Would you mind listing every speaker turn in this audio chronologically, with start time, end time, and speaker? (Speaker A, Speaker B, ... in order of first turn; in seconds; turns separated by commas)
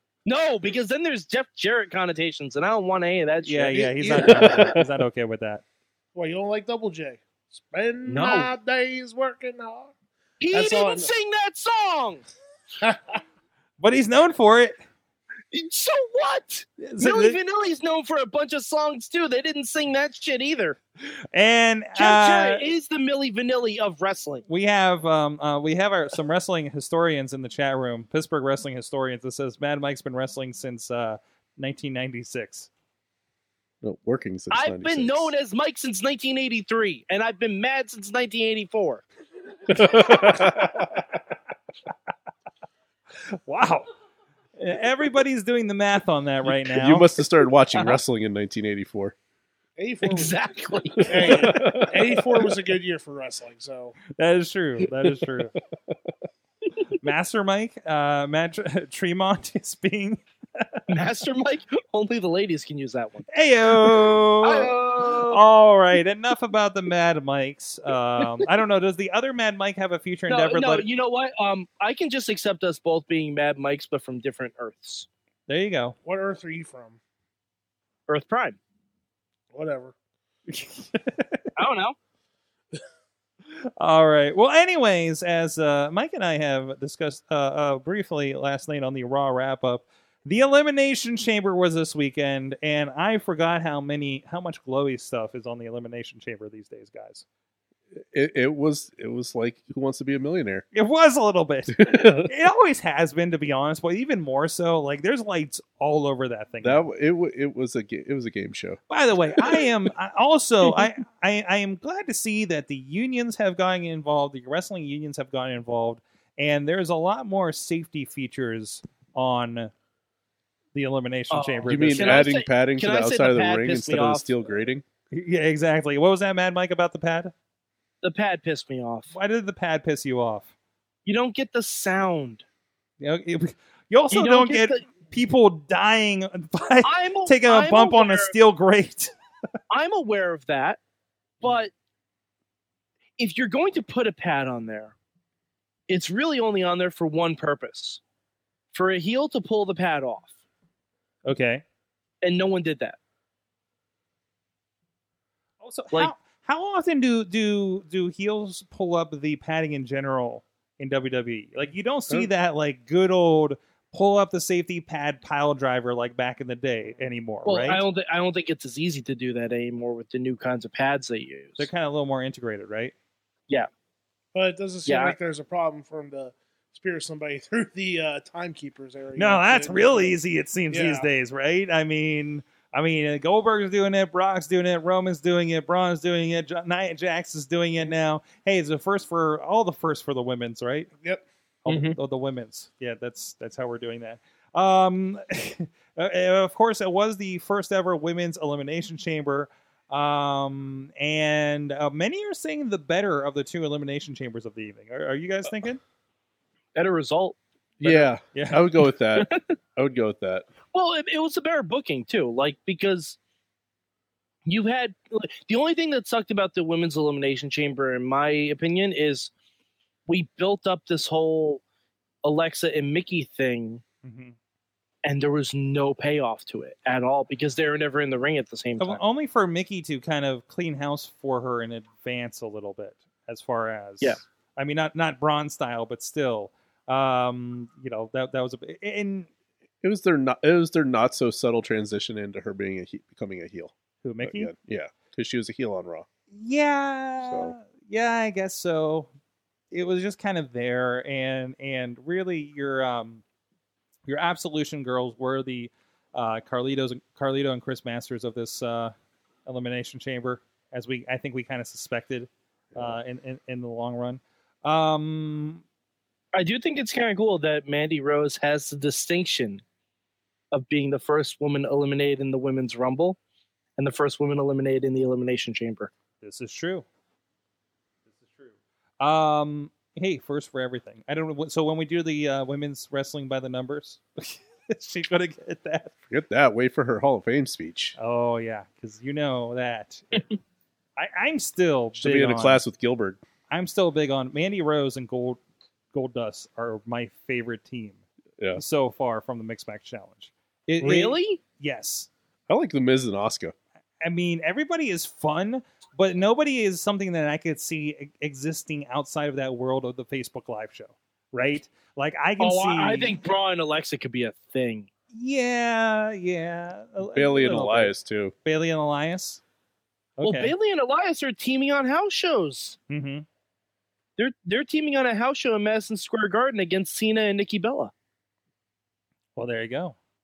Speaker A: 0.3-4.6, Speaker B: 3.4-5.6, Speaker C: 4.1-4.8, Speaker C: 6.2-9.9, Speaker A: 8.1-8.5, Speaker A: 10.4-12.2, Speaker C: 10.5-11.1, Speaker C: 12.8-13.2, Speaker B: 13.8-14.8, Speaker A: 15.5-20.8, Speaker B: 16.8-17.4, Speaker B: 21.3-22.6, Speaker A: 22.0-24.4, Speaker B: 24.5-32.7, Speaker D: 33.8-35.3, Speaker A: 34.5-39.0, Speaker D: 39.7-40.9, Speaker B: 40.2-40.4, Speaker B: 43.3-43.9, Speaker B: 44.6-47.1, Speaker D: 46.6-49.1, Speaker C: 49.8-50.4, Speaker A: 50.0-51.5, Speaker C: 51.0-54.0, Speaker D: 51.3-52.2, Speaker B: 54.2-55.5, Speaker B: 57.0-60.8, Speaker A: 60.9-65.4, Speaker B: 63.3-70.9, Speaker A: 70.3-75.1, Speaker B: 75.5-76.0, Speaker C: 76.0-77.0, Speaker A: 78.1-78.6, Speaker C: 79.5-80.0, Speaker B: 80.5-81.5, Speaker A: 81.6-82.0, Speaker B: 83.8-97.2, Speaker D: 98.0-100.7, Speaker B: 100.7-106.9, Speaker D: 101.8-102.3, Speaker D: 106.6-108.8, Speaker B: 108.9-119.7, Speaker D: 109.3-109.7, Speaker B: 120.7-122.3, Speaker A: 121.3-124.4, Speaker D: 121.7-124.8, Speaker B: 125.1-127.3, Speaker A: 128.0-129.1, Speaker B: 129.1-130.5, Speaker A: 131.1-132.4, Speaker B: 133.0-139.1, Speaker A: 134.1-134.8, Speaker A: 136.8-138.3, Speaker A: 139.7-140.8, Speaker A: 141.4-141.7, Speaker A: 143.2-144.9, Speaker A: 145.9-148.0, Speaker A: 148.7-150.3, Speaker B: 151.3-151.6, Speaker A: 152.2-153.0, Speaker B: 155.6-167.8, Speaker A: 167.4-171.7, Speaker B: 171.6-172.9, Speaker C: 174.3-180.1, Speaker A: 174.9-175.2, Speaker B: 179.2-190.9, Speaker C: 180.7-181.1, Speaker B: 191.7-205.8, Speaker A: 206.8-207.4, Speaker D: 207.8-210.5, Speaker B: 207.8-208.7, Speaker A: 209.2-209.4, Speaker A: 210.7-213.2, Speaker A: 214.5-219.3, Speaker A: 220.1-221.6, Speaker A: 222.2-223.8, Speaker B: 224.0-224.3, Speaker A: 225.1-229.0, Speaker B: 228.8-239.3, Speaker D: 239.8-246.1, Speaker B: 244.0-244.5, Speaker B: 246.3-249.1, Speaker D: 247.2-247.5, Speaker B: 249.7-253.2, Speaker B: 254.1-258.9, Speaker B: 259.5-265.6, Speaker D: 262.7-263.0, Speaker A: 266.3-269.6, Speaker A: 270.5-273.2, Speaker A: 273.8-275.9, Speaker B: 276.2-276.9, Speaker B: 278.1-286.0, Speaker D: 286.1-288.0, Speaker B: 288.0-290.3, Speaker B: 291.0-292.6, Speaker D: 292.0-293.2, Speaker B: 293.5-295.4, Speaker B: 295.9-298.0, Speaker B: 298.5-302.1, Speaker A: 300.8-301.4, Speaker D: 302.5-303.5, Speaker B: 304.0-313.2, Speaker A: 312.4-314.9, Speaker B: 315.1-319.4, Speaker D: 317.0-318.3, Speaker B: 320.2-320.5, Speaker A: 320.2-322.8, Speaker B: 322.9-323.3, Speaker A: 324.2-327.9, Speaker B: 329.4-330.0